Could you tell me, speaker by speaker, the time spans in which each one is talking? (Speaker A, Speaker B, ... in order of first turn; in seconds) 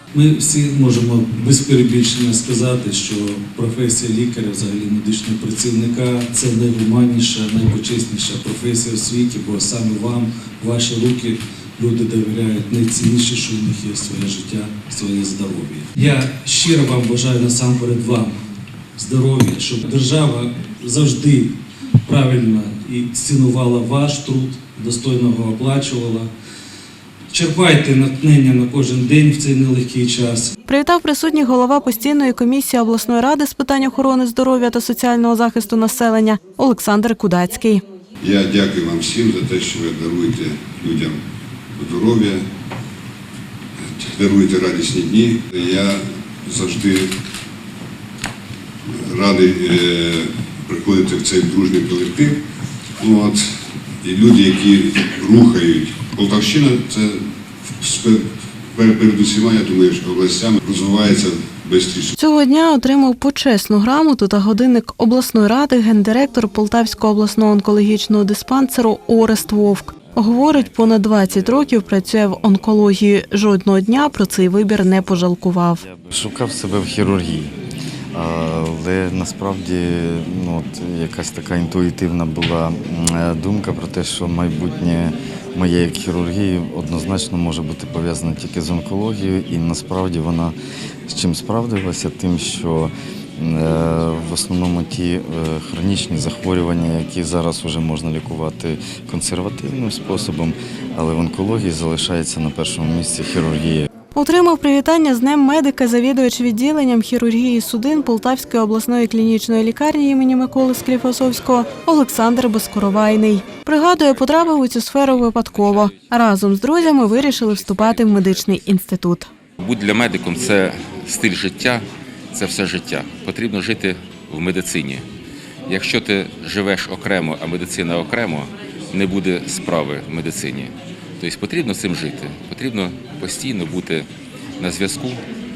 Speaker A: 0.1-18.4, 18.9-26.3, 27.3-30.5
Speaker B: 30.7-37.8, 62.1-75.8, 104.1-119.3
Speaker C: 38.2-41.2, 41.8-42.5, 43.8-47.1, 48.9-52.4, 53.0-57.3, 57.8-62.1
Speaker D: 75.8-77.5, 78.1-90.5, 91.1-103.9
Speaker E: 115.0-118.7, 119.6-125.1, 125.7-134.1, 134.6-135.2